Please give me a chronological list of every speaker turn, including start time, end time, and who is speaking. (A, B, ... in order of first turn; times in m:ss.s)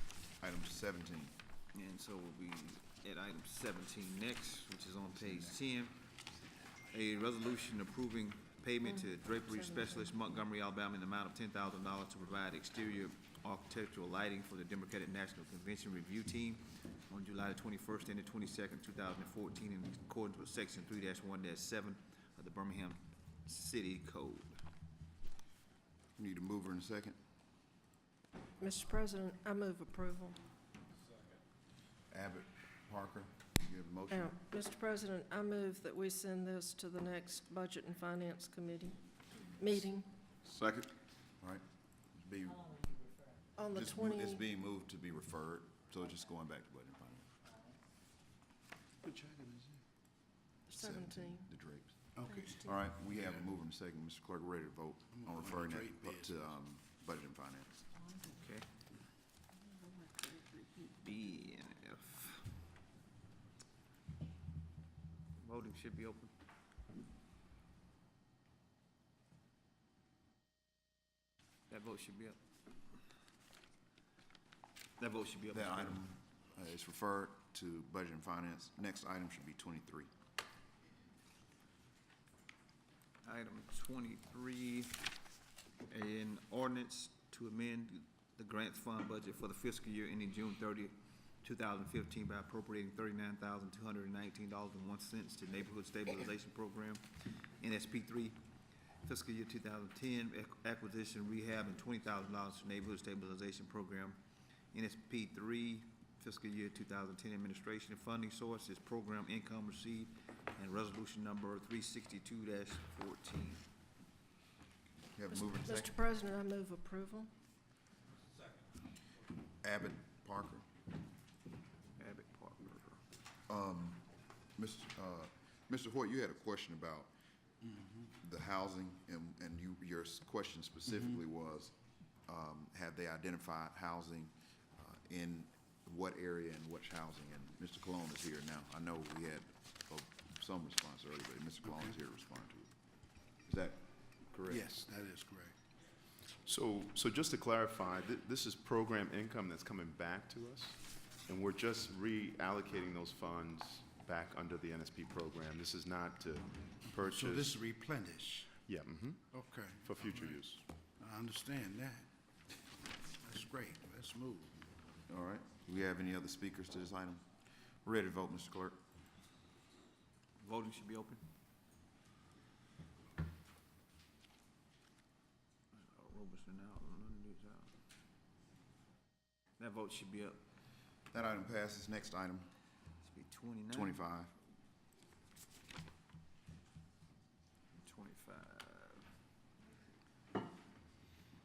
0:00.4-0:01.3 A
0:01.7-0:06.1 B
0:06.9-0:24.6 B
0:08.8-0:10.2 C
0:26.2-0:27.2 A
0:28.6-0:30.4 C
0:32.1-0:34.3 A
0:34.1-0:39.0 C
0:39.6-0:40.1 C
0:40.4-0:42.9 A
0:43.6-0:44.4 C
0:43.7-0:47.3 A
0:50.7-0:51.5 C
0:50.8-0:57.9 A
0:52.2-0:52.6 D
0:52.3-0:52.7 C
0:55.1-0:56.6 D
0:58.3-0:58.7 B
0:59.5-1:01.0 C
1:01.0-1:02.5 B
1:05.4-1:06.3 B
1:11.7-1:12.4 B
1:15.0-1:16.0 B
1:15.5-1:20.1 A
1:23.2-1:25.0 B
1:25.9-1:38.4 B
1:39.0-1:44.2 B
1:44.7-1:53.6 B
1:55.1-1:55.9 A
1:55.3-1:57.3 C
1:59.6-2:00.7 A
2:02.0-2:03.0 B
2:03.5-2:07.1 A
2:08.2-2:22.7 A
2:23.4-2:24.6 A
2:24.5-2:25.5 D
2:26.4-2:37.6 E
2:36.9-2:38.6 D
2:38.7-2:40.6 E
2:39.3-2:40.4 D
2:41.0-2:42.1 D
2:43.2-2:44.6 D
2:45.1-2:47.2 A
2:47.8-2:48.8 A
2:50.4-2:51.2 B
2:55.7-2:57.7 B
2:59.6-3:00.4 B
3:01.1-3:02.5 A
3:03.0-3:04.0 B
3:03.7-3:04.3 A
3:07.8-3:09.0 B